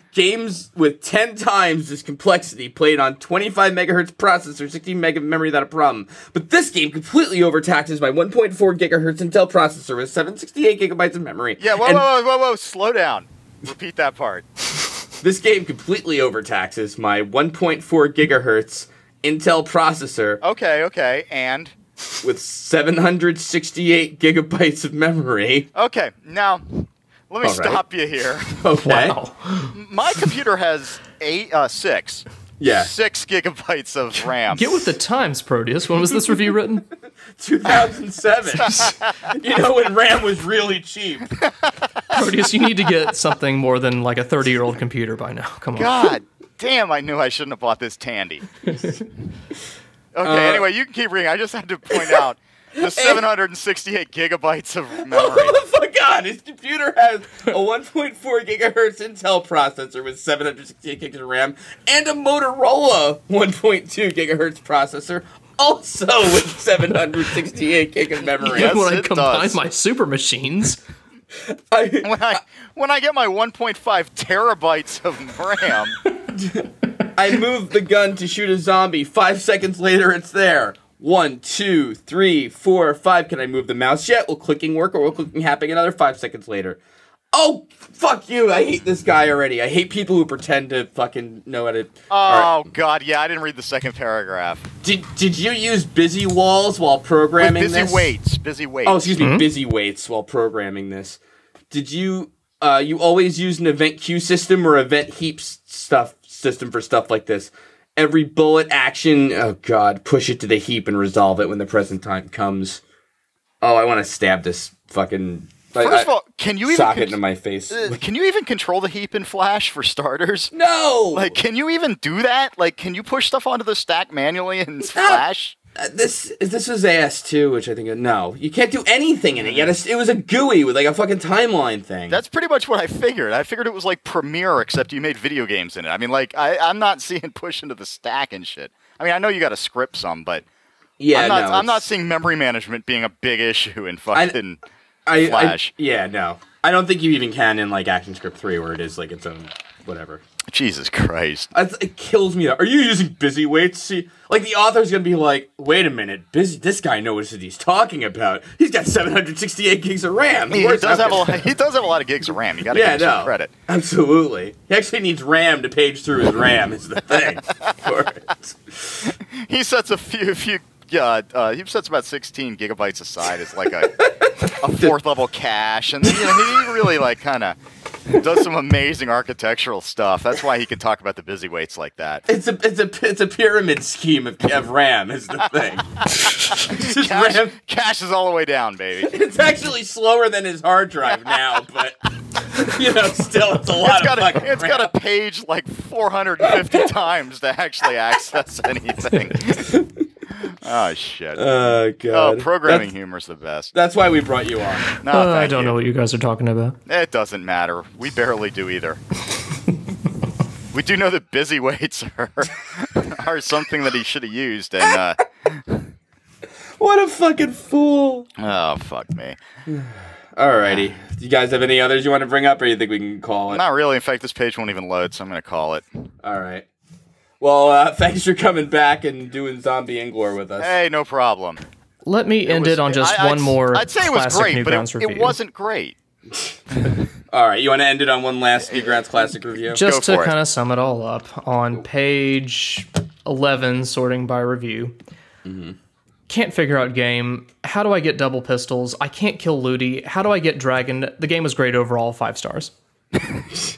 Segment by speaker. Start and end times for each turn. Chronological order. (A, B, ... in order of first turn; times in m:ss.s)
0:00.1-0:12.1 A
0:11.6-0:14.5 B
0:15.2-0:20.4 A
0:20.4-0:21.7 B
0:22.2-0:25.7 A
0:25.7-0:28.6 B
0:27.4-0:27.8 A
0:28.5-0:29.2 A
0:28.8-0:29.8 C
0:29.7-0:34.9 B
0:32.6-0:32.9 A
0:34.5-0:36.9 C
0:37.4-0:41.3 A
0:38.6-0:39.1 B
0:41.3-0:42.2 B
0:42.1-0:46.1 C
0:45.7-0:48.4 B
0:50.1-0:55.6 B
0:50.2-0:50.7 A
0:51.9-0:52.2 A
0:52.8-0:53.2 A
0:55.0-1:08.8 A
1:08.4-1:10.8 C
1:08.4-1:09.6 B
1:11.5-1:12.4 A
1:12.0-1:16.0 B
1:17.2-1:26.8 A
1:27.3-1:32.7 A
1:32.1-1:34.6 B
1:34.8-1:38.1 A
1:37.4-1:39.3 B
1:38.8-1:41.2 A
1:39.2-1:39.5 C
1:41.7-1:52.8 A
1:53.6-1:56.1 A
1:55.8-1:57.2 B
1:56.6-1:58.0 A
1:57.7-2:00.5 B
2:00.5-2:01.4 A
2:01.1-2:05.6 B
2:04.8-2:05.2 A
2:05.8-2:12.2 A
2:09.4-2:09.7 B
2:12.1-2:20.4 B
2:21.0-2:21.9 A
2:21.1-2:24.6 B
2:24.1-2:24.4 A
2:25.1-2:30.2 A
2:25.1-2:25.7 B
2:30.5-2:31.5 B
2:31.5-2:41.5 A
2:40.5-2:43.5 B
2:42.7-2:49.1 A
2:47.6-2:47.9 B
2:49.2-2:54.0 B
2:53.7-2:54.9 A
2:54.5-2:57.6 B
2:56.1-2:56.8 A
2:58.1-3:02.2 B
3:02.3-3:07.5 A
3:06.0-3:09.1 B
3:09.0-3:14.9 A
3:13.8-3:19.6 B
3:16.4-3:16.8 A
3:19.1-3:19.4 C
3:19.6-3:19.8 A
3:20.3-3:21.5 B
3:21.4-3:22.9 A
3:22.1-3:23.7 B
3:23.7-3:24.8 A
3:24.9-3:26.8 C
3:25.0-3:25.8 B
3:26.8-3:29.0 B
3:30.7-3:35.9 B
3:36.8-3:38.3 A
3:38.4-3:39.4 B
3:39.7-3:43.6 A
3:43.5-3:45.8 B
3:46.2-3:46.7 A
3:47.4-3:50.8 A
3:50.6-3:51.6 B
3:52.0-3:55.4 C
3:52.4-3:56.0 B
3:57.3-3:59.8 A
3:59.7-4:05.0 C
3:59.8-4:00.3 B
4:05.4-4:05.8 A
4:06.3-4:12.7 C